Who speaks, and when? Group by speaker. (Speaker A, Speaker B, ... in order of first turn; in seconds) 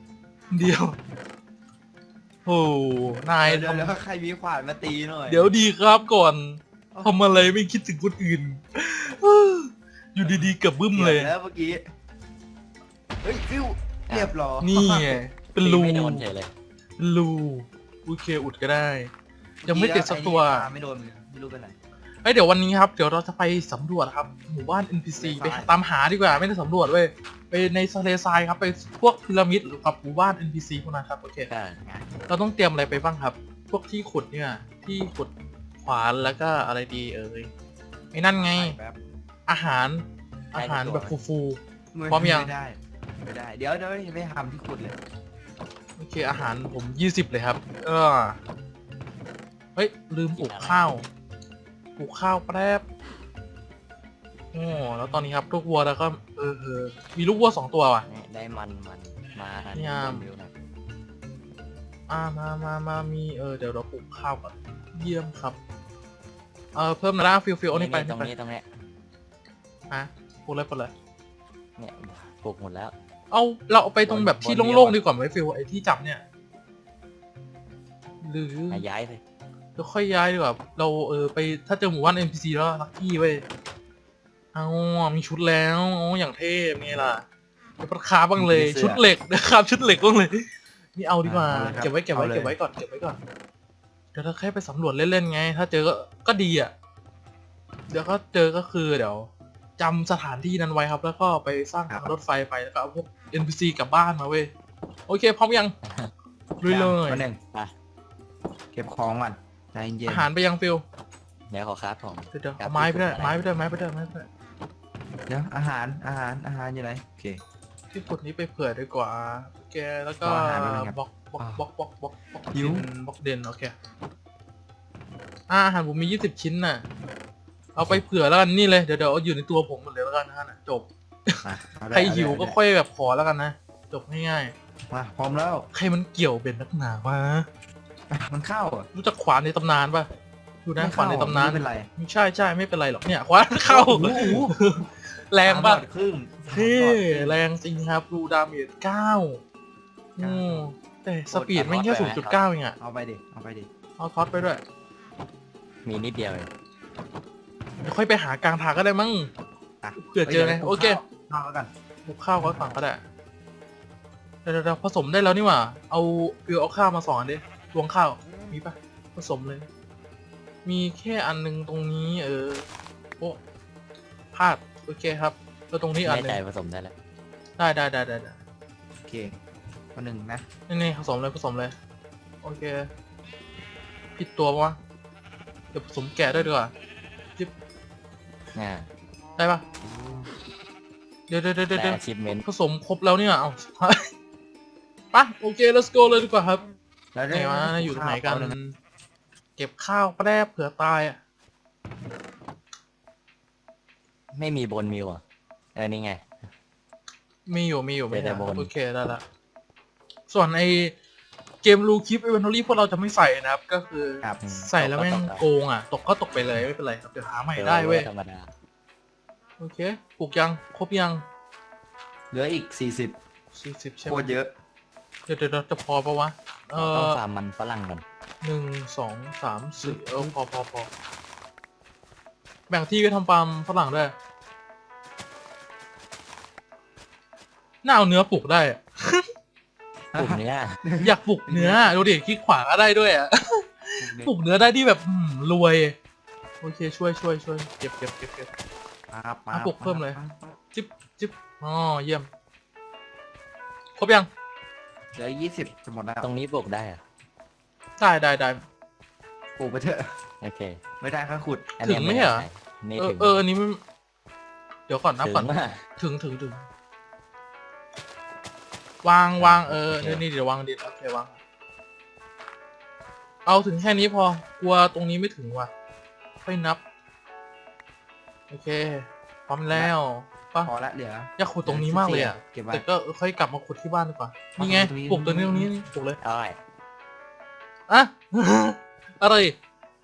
Speaker A: 0.5-1.0, 2.5-4.0, 5.3-11.3, 14.6-16.2, 17.0-19.1, 19.6-20.7, 22.2-31.5, 32.3-37.5, 38.1-38.8, 39.5-42.5, 46.0-48.4, 49.8-51.1, 52.0-52.9, 54.5-58.1, 59.7-60.3, 62.1-65.6, 66.7-68.3, 69.9-70.9, 73.3-76.2, 78.2-78.8, 79.8-83.4, 84.5-87.2, 87.8-93.2, 94.1-96.7, 97.9-104.5, 105.1-105.7, 106.6-107.3, 110.1-110.8, 112.3-114.3, 117.9-123.7, 125.5-126.9, 127.7-134.5, 135.7-137.5, 138.9-140.1, 140.6-145.8, 146.5-149.4, 150.2-152.8, 154.0-154.6, 157.8-159.3, 160.0-161.0, 162.0-163.0, 164.4-169.7, 170.6-172.7, 174.3-176.4, 177.6-178.4, 180.7-181.8, 182.4-182.9, 184.2-184.8, 185.7-186.7, 189.4-189.6, 191.3-194.1, 195.1-196.6, 197.3-198.8, 199.6-201.2, 207.4-209.2, 210.3-210.9, 211.6-218.1, 219.6-221.2, 223.5-224.4, 225.3-227.2, 228.4-230.9, 232.7-234.1, 237.8-239.2, 241.0-245.9, 246.6-248.5, 249.5-250.2, 250.7-252.3, 254.0-254.3, 258.0-258.6, 261.8-263.8, 264.9-266.7, 269.0-271.4, 273.4-275.7, 276.4-276.8, 278.5-280.7, 281.4-286.2, 287.9-289.6
Speaker B: 3.4-5.5, 6.9-7.6, 10.2-11.9, 13.2-15.2, 19.6-21.8, 25.2-25.8, 38.3-39.0, 40.6-41.0, 41.9-45.0, 88.4-89.0, 91.2-92.6, 106.6-107.4, 108.7-110.3, 115.3-117.4, 120.2-121.7, 122.5-122.9, 131.4-132.6, 134.9-135.7, 138.1-138.9, 140.8-141.9, 143.6-144.5, 145.4-147.4, 150.2-150.7, 152.8-153.7, 159.8-161.7, 179.0-179.4, 179.9-180.4, 197.1-198.6, 222.3-223.2, 224.1-224.5, 229.8-230.3, 240.1-242.0, 244.0-244.3, 249.1-250.6, 255.1-256.3, 259.6-260.1, 261.0-261.7, 280.6-282.9, 284.6-285.7
Speaker C: 14.1-14.3, 15.6-16.5, 31.5-31.8, 40.5-41.1, 50.4-50.9, 58.1-60.5, 67.7-68.7, 71.8-72.9, 74.1-75.0, 78.7-79.2, 105.9-106.1, 111.5-113.4, 151.3-152.4, 155.8-156.5, 176.0-176.9, 188.5-188.9, 191.7-192.4, 204.3-205.2, 205.7-206.2, 208.1-208.7, 214.4-215.4, 217.6-218.5, 226.7-228.0, 240.1-240.8, 256.2-257.0, 260.4-260.8, 261.8-263.4, 265.2-265.8, 269.4-270.2, 286.2-286.6